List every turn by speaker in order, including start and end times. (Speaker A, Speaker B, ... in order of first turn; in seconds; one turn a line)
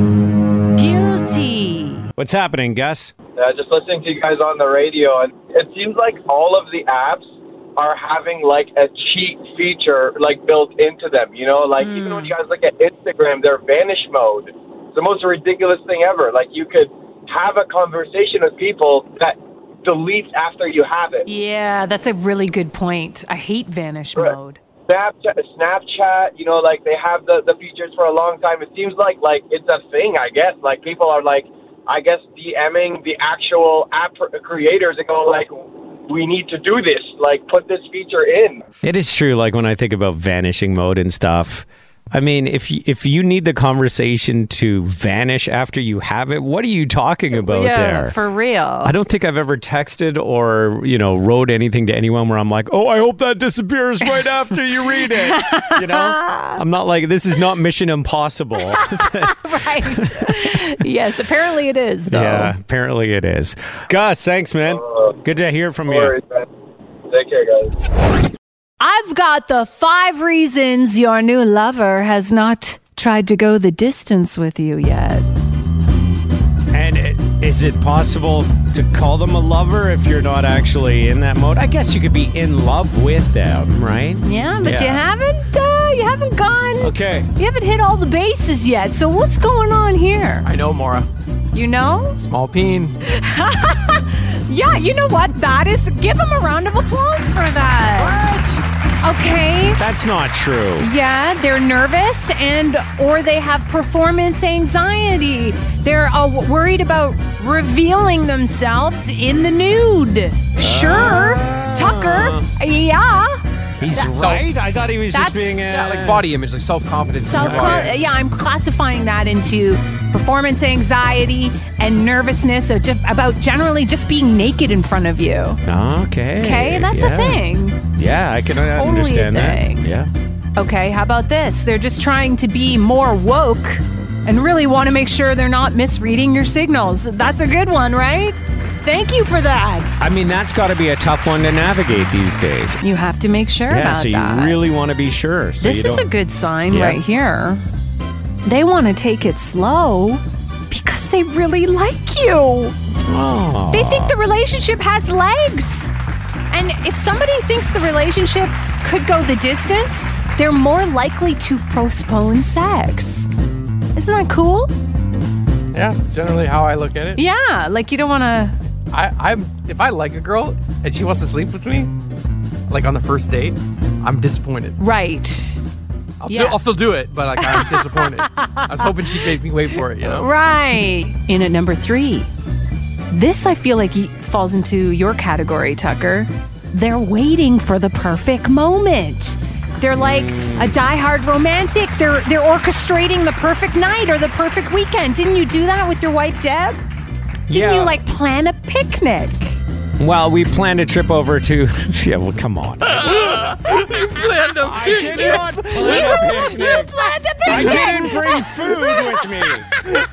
Speaker A: 0.8-2.1
Speaker B: 2.2-3.1
Speaker C: 3.4-21.3
Speaker A: 11.8-12.3
Speaker A: 21.3-24.6
Speaker C: 24.9-38.6
Speaker B: 38.8-48.2
Speaker A: 47.3-48.9
Speaker B: 48.8-60.4
Speaker A: 54.9-56.6
Speaker A: 58.6-62.6
Speaker B: 62.1-66.1
Speaker C: 64.7-65.2
Speaker C: 65.9-66.5
Speaker C: 67.1-67.7
Speaker A: 68.8-75.3
Speaker B: 76.7-85.0
Speaker A: 84.2-90.5
Speaker B: 86.8-87.3
Speaker D: 90.4-91.1
Speaker A: 91.5-92.2
Speaker D: 92.2-93.0
Speaker A: 93.0-98.2
Speaker D: 98.0-98.6
Speaker A: 99.0-99.8
Speaker B: 99.8-100.9
Speaker A: 100.8-113.4
Speaker B: 110.6-112.5
Speaker B: 113.8-116.3
Speaker A: 113.9-114.2
Speaker D: 113.9-114.5
Speaker A: 115.1-115.7
Speaker D: 115.7-118.0
Speaker A: 117.2-125.6
Speaker B: 117.4-117.9
Speaker B: 125.6-127.4
Speaker A: 126.4-127.8
Speaker B: 128.0-130.1
Speaker A: 128.3-129.9
Speaker A: 130.6-140.0
Speaker B: 140.0-142.8
Speaker A: 142.8-144.7
Speaker B: 143.7-146.1
Speaker A: 145.6-147.6
Speaker B: 146.7-147.0
Speaker A: 148.4-152.8
Speaker B: 153.1-154.2
Speaker A: 153.7-155.9
Speaker A: 156.5-163.3
Speaker A: 163.9-164.7
Speaker D: 165.7-167.2
Speaker A: 167.2-168.6
Speaker D: 168.9-171.9
Speaker D: 172.7-174.8
Speaker A: 174.8-175.6
Speaker D: 176.2-180.3
Speaker A: 176.3-176.6
Speaker A: 177.4-178.9
Speaker A: 180.0-182.3
Speaker A: 183.1-196.8
Speaker B: 190.0-190.8
Speaker B: 197.5-198.0
Speaker A: 197.5-199.6
Speaker B: 200.0-203.5
Speaker D: 203.0-206.1
Speaker B: 204.6-209.8
Speaker A: 205.0-210.0